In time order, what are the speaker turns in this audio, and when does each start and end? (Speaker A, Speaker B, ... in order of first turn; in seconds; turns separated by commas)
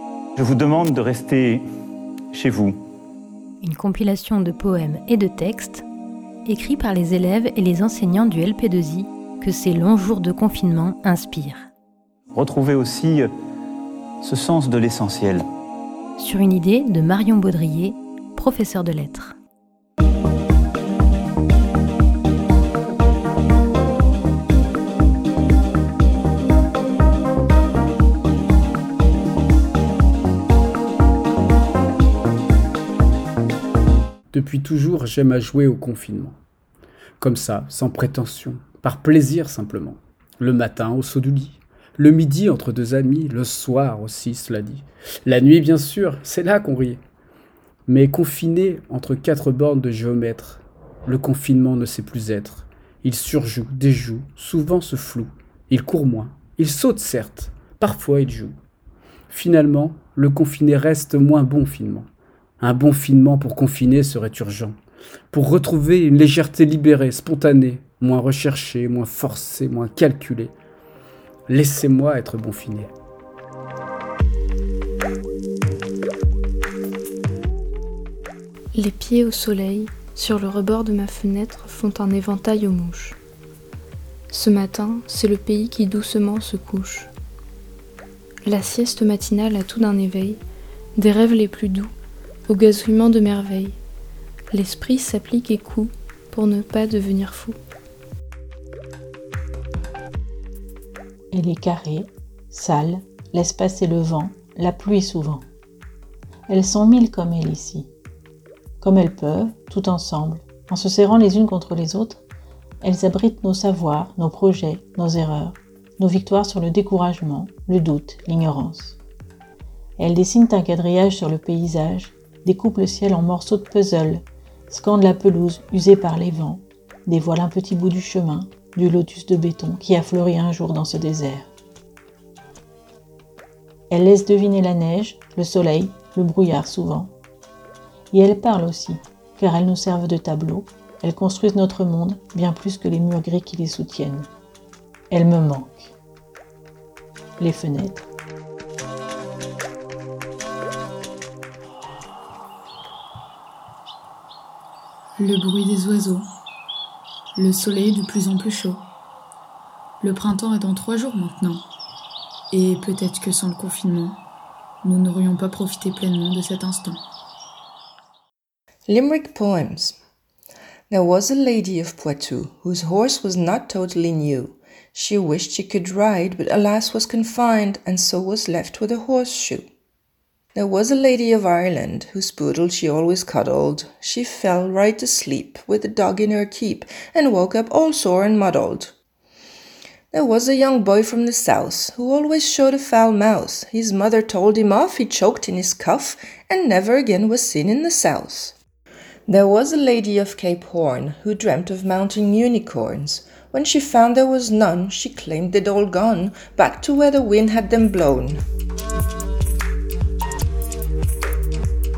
Speaker A: 0.4-1.7, Speaker A: 2.3-2.8, Speaker B: 3.6-5.9, Speaker B: 6.5-11.7, Speaker A: 12.3-13.3, Speaker A: 14.2-15.5, Speaker B: 16.2-19.4, Speaker C: 34.3-36.4, Speaker C: 37.2-47.0, Speaker C: 47.9-58.5, Speaker C: 59.3-62.1, Speaker C: 62.6-64.8, Speaker C: 65.3-70.5, Speaker C: 71.5-72.9, Speaker D: 78.7-83.2, Speaker D: 84.3-87.1, Speaker D: 88.4-90.4, Speaker D: 91.0-91.9, Speaker D: 92.5-93.8, Speaker D: 94.5-97.6, Speaker E: 101.3-105.5, Speaker E: 106.5-107.9, Speaker E: 108.8-112.2, Speaker E: 112.8-119.0, Speaker E: 120.0-131.5, Speaker E: 133.9-137.1, Speaker E: 138.1-144.3, Speaker E: 145.1-145.9, Speaker E: 147.4-148.1, Speaker F: 155.2-156.2, Speaker F: 157.3-158.8, Speaker F: 160.0-161.6, Speaker F: 162.5-164.2, Speaker F: 164.8-167.0, Speaker G: 168.9-170.0, Speaker G: 170.9-179.7, Speaker G: 180.6-188.9, Speaker G: 190.1-198.6, Speaker G: 199.3-208.4